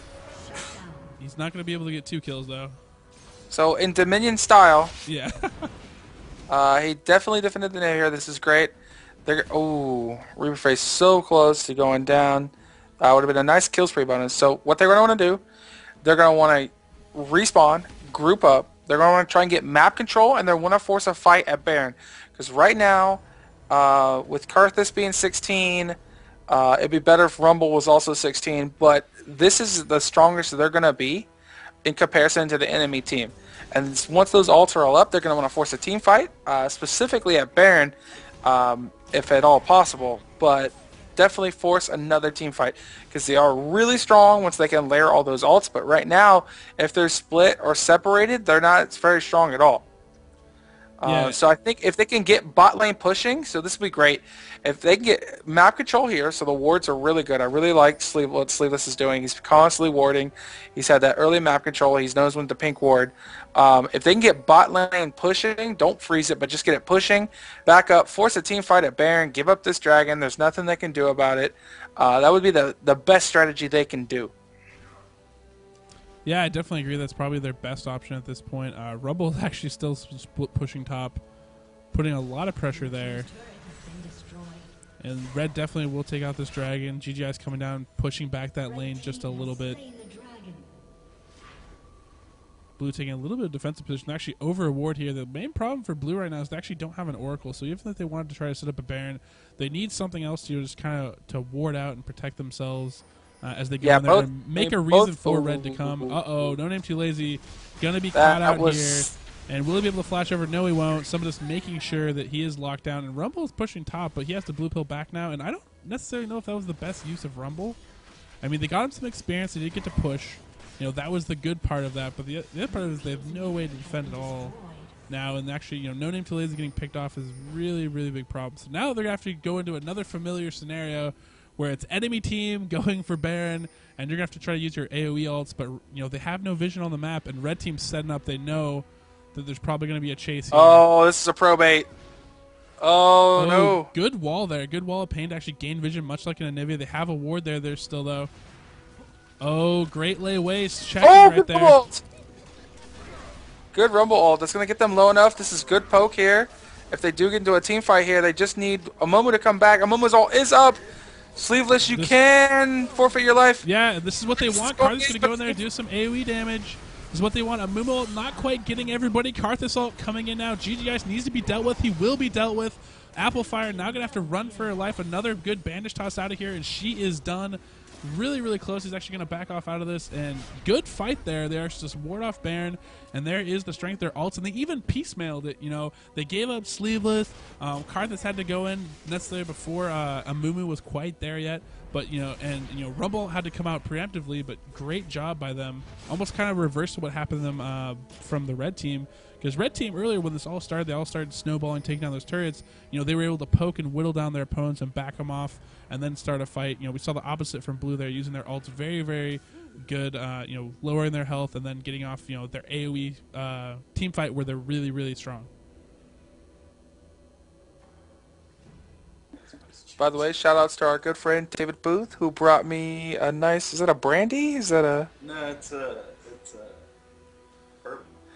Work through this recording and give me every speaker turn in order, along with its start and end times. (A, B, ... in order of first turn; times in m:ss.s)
0:00.4-0:01.2 A
0:01.2-0:02.8 B
0:03.5-0:05.0 C
0:05.1-0:05.7 B
0:06.5-0:08.7 C
0:09.3-0:15.4 C
0:16.0-0:26.0 C
0:26.5-0:31.3 C
0:31.8-0:49.8 C
0:51.0-1:14.3 C
0:51.0-0:51.4 B
1:16.2-1:21.2 B
1:21.9-1:23.3 B
1:22.7-1:24.8 A
1:25.0-1:29.8 B
1:28.6-1:30.8 A
1:32.8-1:57.8 B
1:43.8-1:46.2 C
1:48.1-1:49.1 C
1:58.4-2:04.6 B
2:02.6-2:05.0 A
2:05.1-2:20.9 B
2:20.5-2:21.9 C
2:22.8-2:23.9 C
2:23.4-2:28.3 B
2:29.4-2:31.8 B
2:31.0-2:32.0 C
2:33.7-2:40.8 C
2:41.4-2:43.6 C
2:41.9-2:42.2 B
2:43.6-3:35.5 B
2:44.4-2:45.6 C
2:53.3-2:54.8 A
3:40.0-3:45.1 C
3:45.2-3:46.9 D
3:47.8-3:48.1 D